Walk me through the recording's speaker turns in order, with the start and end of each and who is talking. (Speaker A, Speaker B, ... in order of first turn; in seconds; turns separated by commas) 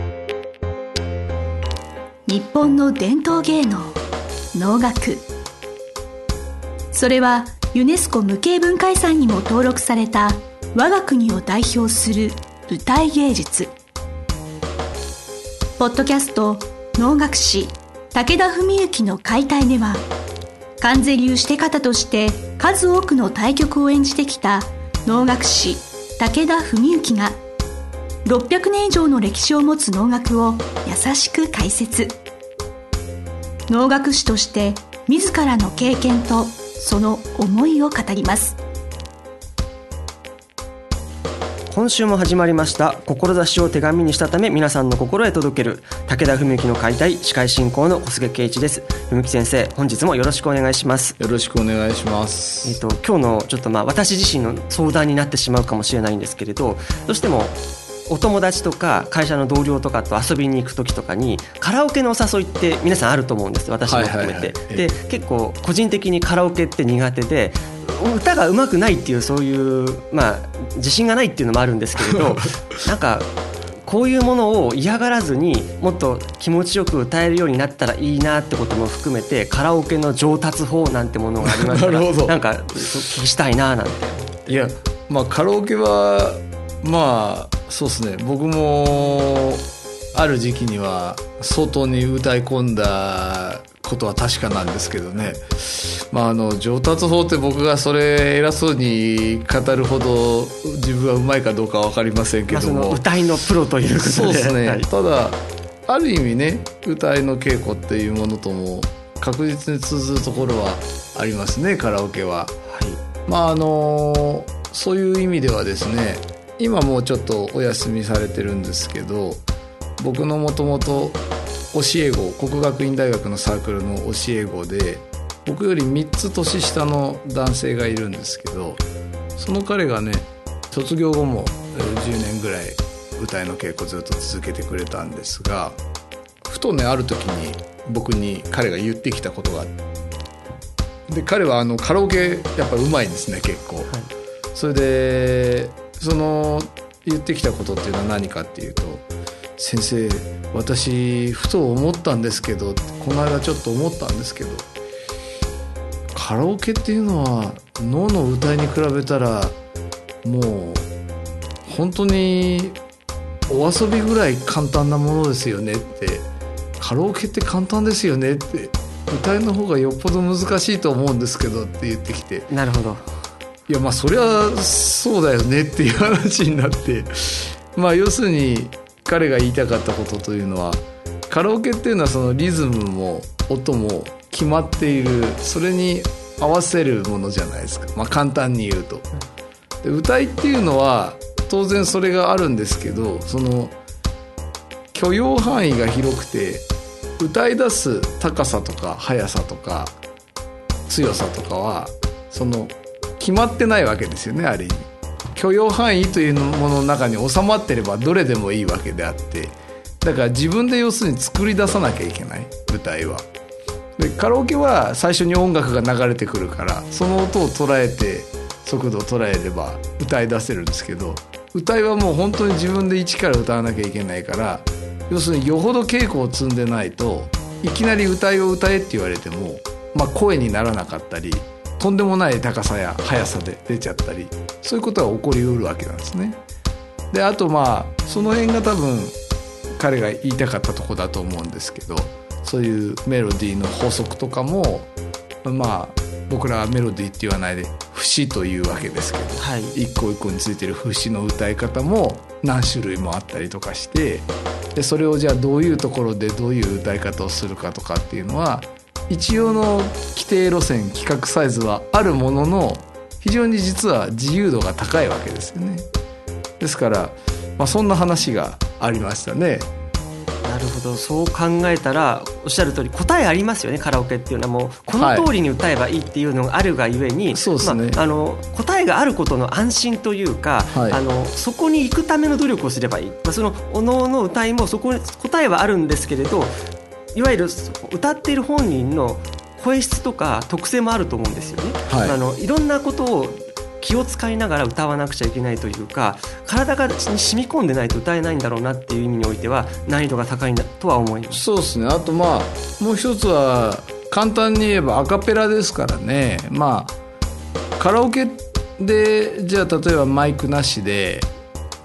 Speaker A: 2.3-4.0, Speaker A: 4.5-5.2, Speaker A: 6.9-13.7, Speaker A: 15.8-20.1, Speaker A: 20.8-27.4, Speaker A: 28.2-32.2, Speaker A: 33.7-38.6, Speaker B: 41.7-51.1, Speaker C: 51.2-52.8, Speaker B: 52.6-73.3, Speaker C: 63.8-64.9, Speaker B: 73.8-84.7, Speaker C: 81.4-82.8, Speaker C: 84.5-103.0, Speaker B: 102.5-104.9, Speaker C: 104.0-112.5, Speaker B: 112.7-113.0, Speaker C: 113.3-119.4, Speaker C: 120.0-121.2, Speaker C: 121.7-128.8, Speaker C: 129.4-135.8, Speaker C: 136.4-139.7, Speaker C: 141.1-143.9, Speaker C: 144.5-149.1, Speaker C: 149.6-154.7, Speaker C: 156.1-159.6, Speaker C: 160.2-160.9, Speaker C: 161.7-162.8, Speaker C: 163.5-166.3, Speaker C: 166.8-172.5, Speaker B: 172.5-173.1, Speaker C: 173.7-189.1, Speaker C: 189.8-193.7, Speaker C: 194.9-196.7, Speaker C: 197.2-199.9, Speaker C: 200.9-213.3, Speaker C: 214.0-236.4, Speaker C: 237.1-239.2, Speaker C: 239.8-244.9, Speaker C: 245.4-265.9, Speaker B: 249.4-249.8, Speaker C: 266.6-269.7, Speaker B: 270.4-286.5, Speaker C: 274.9-275.3, Speaker C: 277.3-278.0, Speaker C: 280.7-281.0, Speaker B: 287.1-301.4, Speaker C: 291.9-292.2, Speaker C: 301.3-306.9, Speaker C: 307.8-311.3